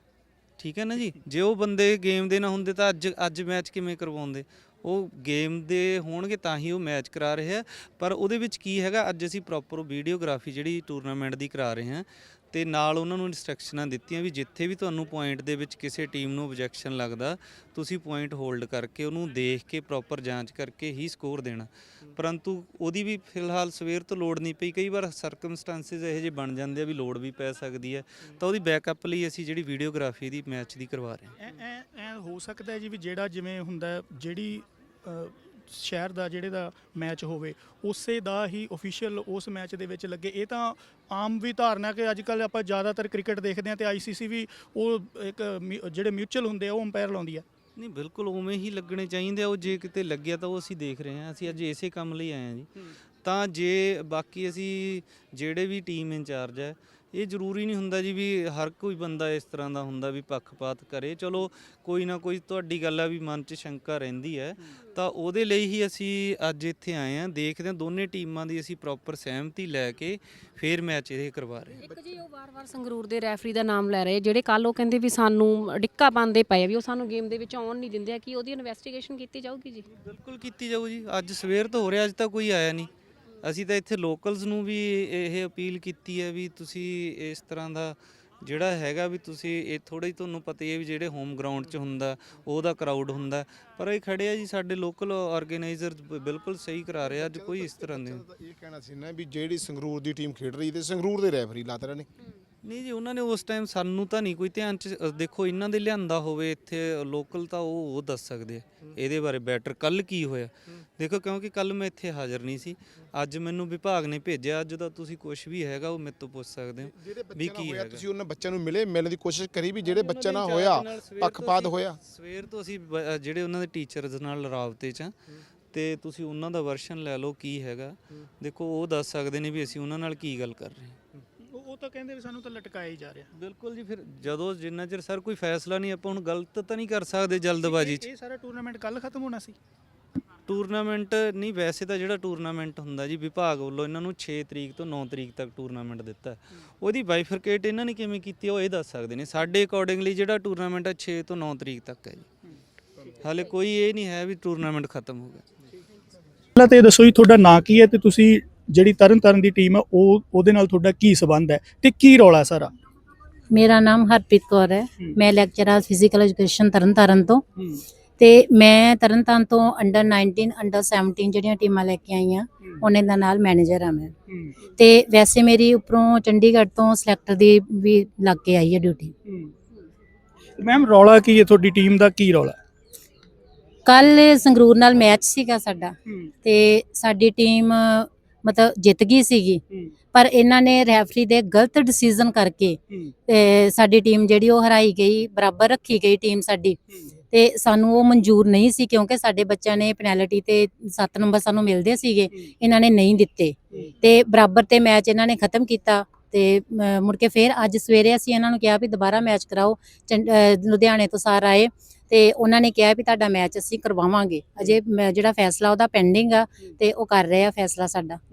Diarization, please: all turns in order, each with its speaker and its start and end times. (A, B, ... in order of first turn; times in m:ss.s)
0:00.6-0:31.4 A
0:31.4-0:47.4 B
0:47.8-0:52.7 A
0:53.2-1:11.8 A
1:11.8-1:19.9 C
1:19.9-1:22.9 A
1:23.4-1:38.2 A
1:37.0-1:42.1 D
1:42.6-1:58.1 A
1:56.8-2:02.0 D
1:59.8-2:05.2 A
2:05.7-2:11.0 A
2:11.5-2:13.3 B
2:13.4-2:18.0 A
2:17.6-2:19.6 B
2:20.5-2:32.3 A
2:33.2-2:35.4 A
2:36.6-2:42.7 B
2:43.5-2:47.4 E
2:47.6-2:47.8 B
2:48.2-2:54.1 E
2:54.3-2:54.6 B
2:54.8-2:59.1 E
2:59.3-2:59.5 B
3:00.6-3:02.6 B
3:03.9-3:09.6 E
3:06.1-3:06.3 B
3:10.1-3:16.8 E
3:17.3-3:38.2 E